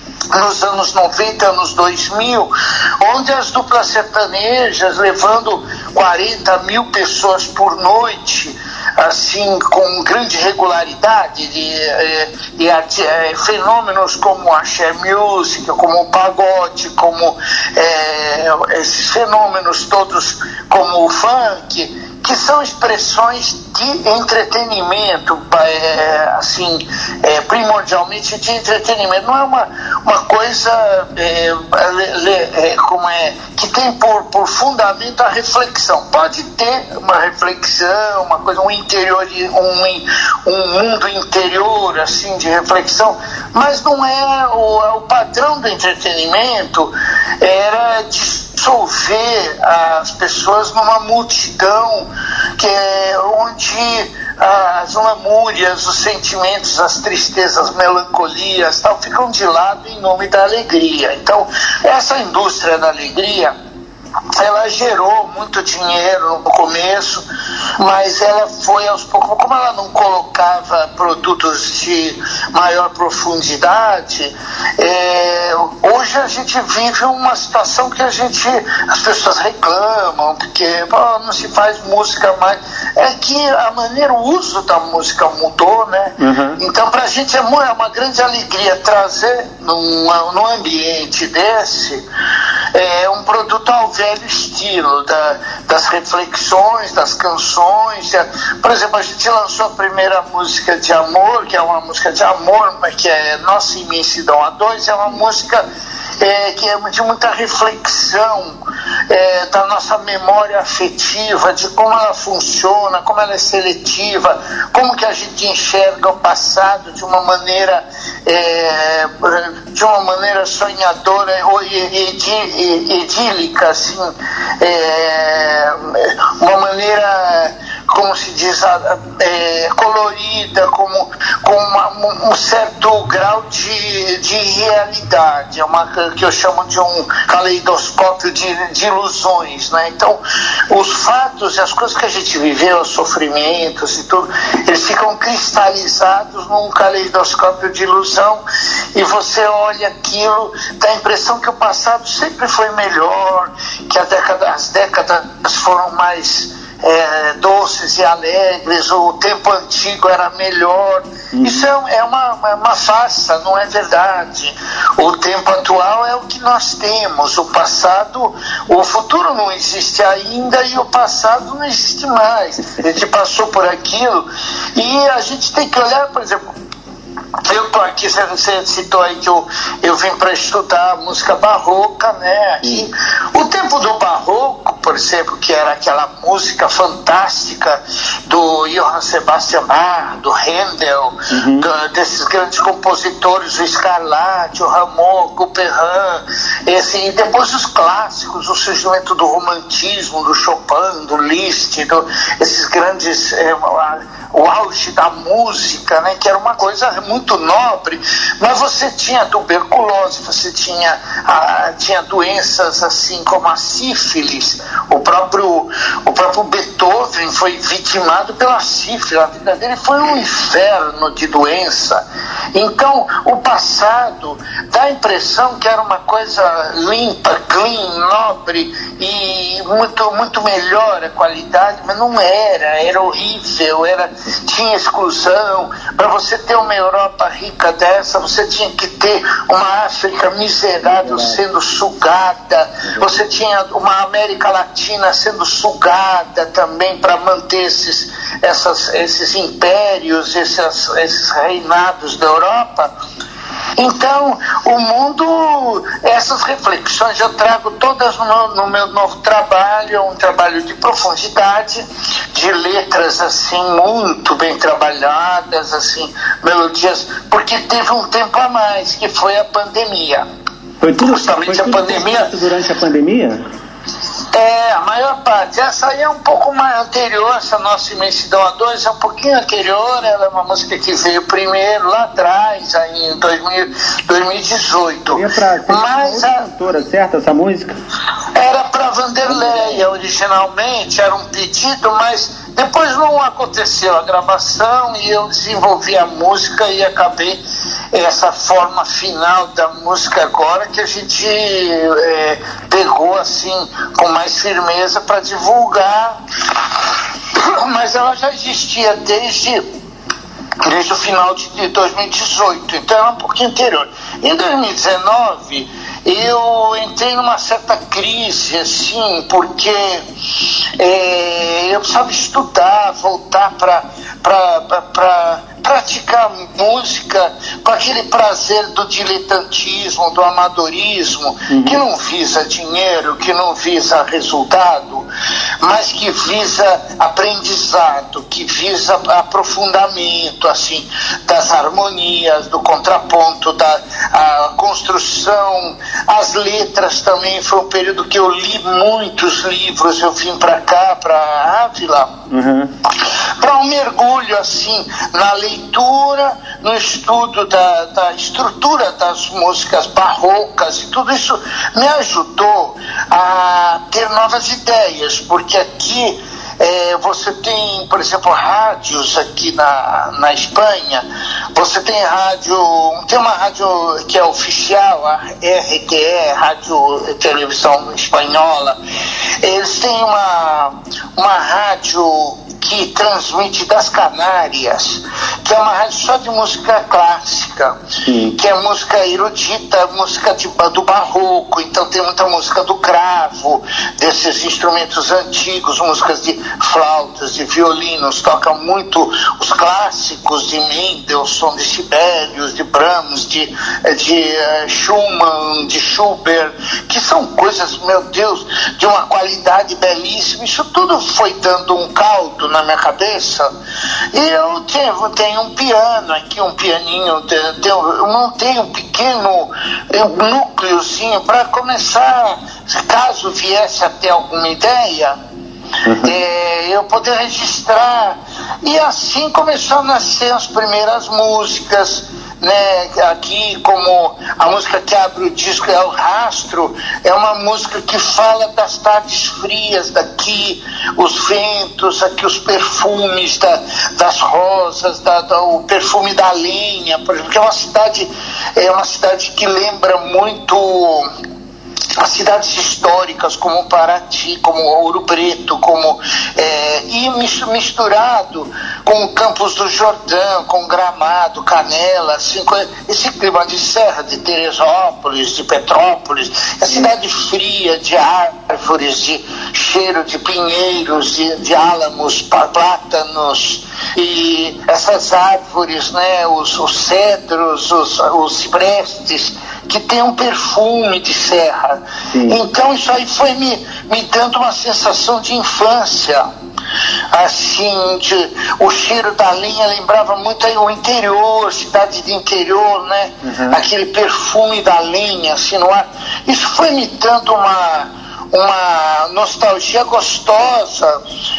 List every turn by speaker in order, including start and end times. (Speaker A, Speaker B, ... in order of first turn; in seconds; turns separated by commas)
Speaker A: 0.3-63.5, Speaker A: 64.3-67.2, Speaker A: 67.8-92.0, Speaker B: 86.2-86.6, Speaker A: 92.7-105.6, Speaker A: 106.2-108.6, Speaker A: 109.1-148.4, Speaker A: 148.9-176.4, Speaker B: 161.3-161.7, Speaker A: 177.4-252.9, Speaker B: 191.3-191.7, Speaker B: 240.9-241.4, Speaker A: 253.8-270.2, Speaker B: 270.8-273.4, Speaker A: 271.0-272.3, Speaker A: 274.3-286.4, Speaker B: 285.1-287.7, Speaker A: 288.3-297.4, Speaker B: 289.3-289.8, Speaker A: 297.9-306.2, Speaker A: 307.3-309.6, Speaker A: 310.6-320.0, Speaker A: 320.8-335.1, Speaker B: 331.5-331.8, Speaker A: 335.6-352.1, Speaker B: 352.3-352.7, Speaker A: 353.1-378.8, Speaker A: 379.4-387.8, Speaker B: 388.1-388.4, Speaker A: 388.3-413.5, Speaker A: 414.1-425.2, Speaker B: 425.9-426.1, Speaker A: 426.0-451.1, Speaker A: 452.0-486.3, Speaker B: 482.1-482.4, Speaker A: 487.1-501.0, Speaker B: 493.2-493.6